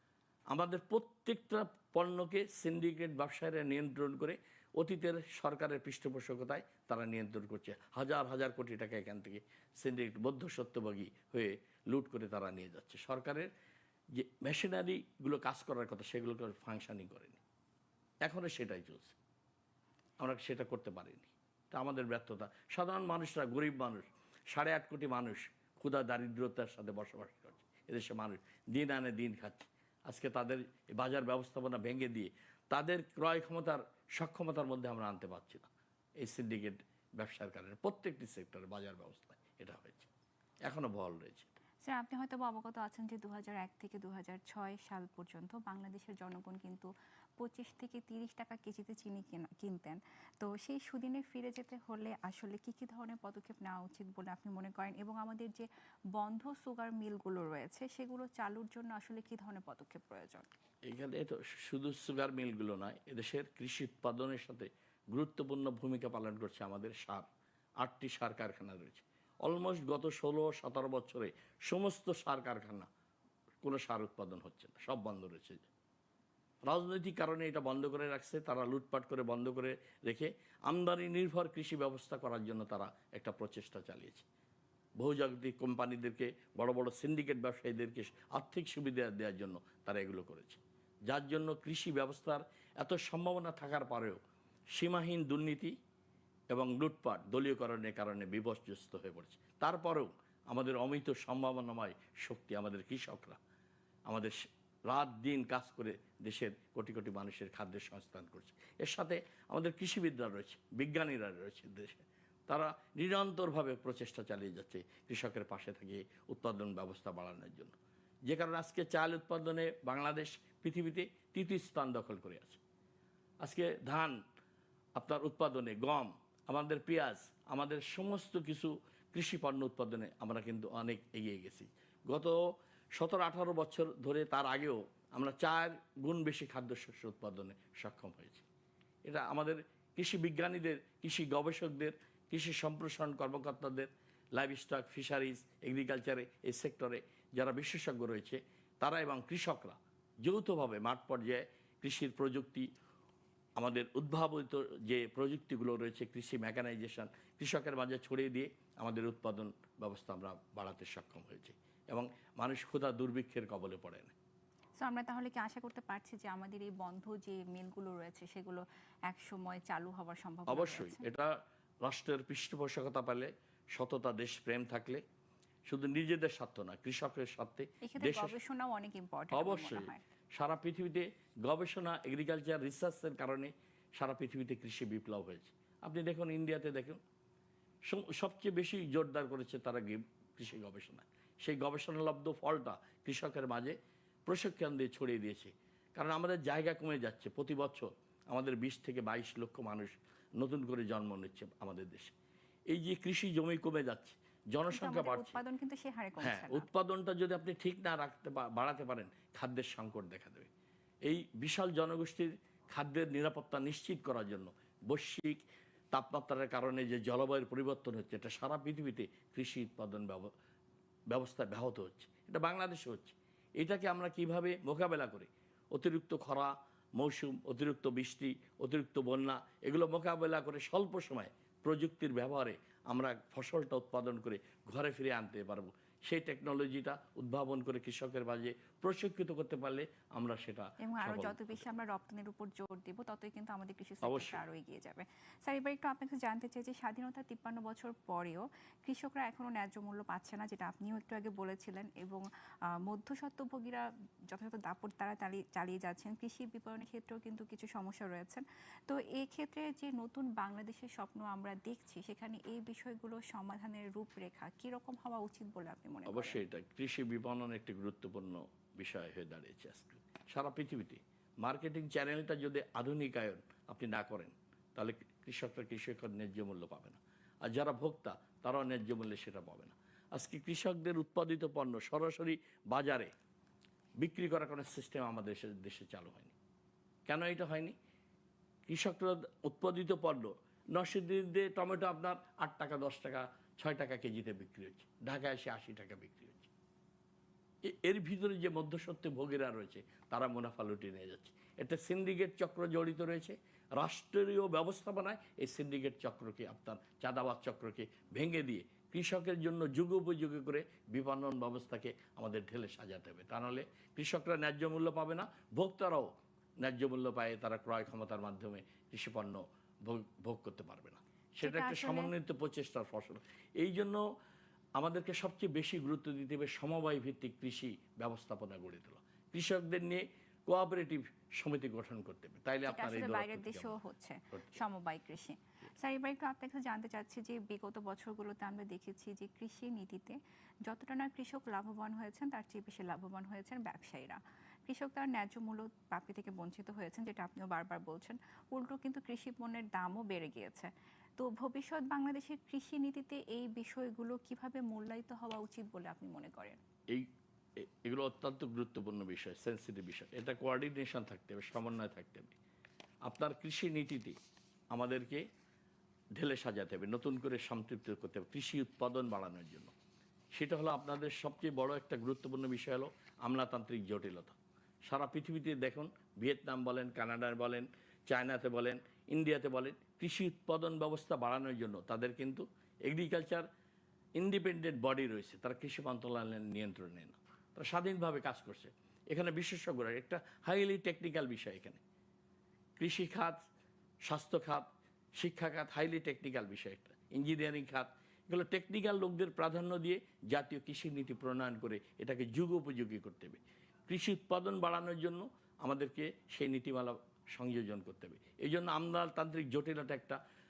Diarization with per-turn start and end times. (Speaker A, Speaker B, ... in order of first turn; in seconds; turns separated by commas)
Speaker A: 0.5-13.5, Speaker A: 14.1-17.4, Speaker A: 18.2-19.2, Speaker A: 20.2-35.7, Speaker A: 36.2-40.1, Speaker A: 40.6-41.5, Speaker B: 41.8-60.5, Speaker A: 60.9-67.3, Speaker A: 67.8-72.9, Speaker A: 73.6-75.7, Speaker A: 76.7-84.2, Speaker A: 85.0-94.2, Speaker A: 94.7-95.7, Speaker A: 96.5-103.4, Speaker A: 104.1-122.6, Speaker A: 123.4-124.2, Speaker A: 125.0-138.4, Speaker A: 139.0-152.7, Speaker A: 153.6-164.1, Speaker B: 164.8-171.0, Speaker A: 170.5-171.3, Speaker A: 171.8-175.0, Speaker A: 175.7-178.3, Speaker B: 177.8-180.0, Speaker A: 179.3-187.0, Speaker A: 187.9-202.1, Speaker A: 202.7-205.4, Speaker B: 204.7-206.7, Speaker A: 206.2-210.5, Speaker A: 211.0-220.3, Speaker A: 221.1-241.7, Speaker B: 240.8-252.2, Speaker A: 244.0-244.4, Speaker B: 252.8-266.4, Speaker A: 266.1-283.1, Speaker A: 284.0-286.3, Speaker A: 287.1-287.7, Speaker A: 288.7-296.5, Speaker A: 297.6-316.1, Speaker A: 316.6-324.0, Speaker B: 321.4-322.1, Speaker A: 324.8-333.8, Speaker B: 332.6-356.6, Speaker A: 334.3-334.6, Speaker A: 356.9-362.4, Speaker A: 363.0-364.1, Speaker A: 364.7-365.2, Speaker A: 366.1-369.7, Speaker A: 370.3-383.5, Speaker A: 384.2-391.8, Speaker A: 392.8-393.4, Speaker A: 394.0-410.2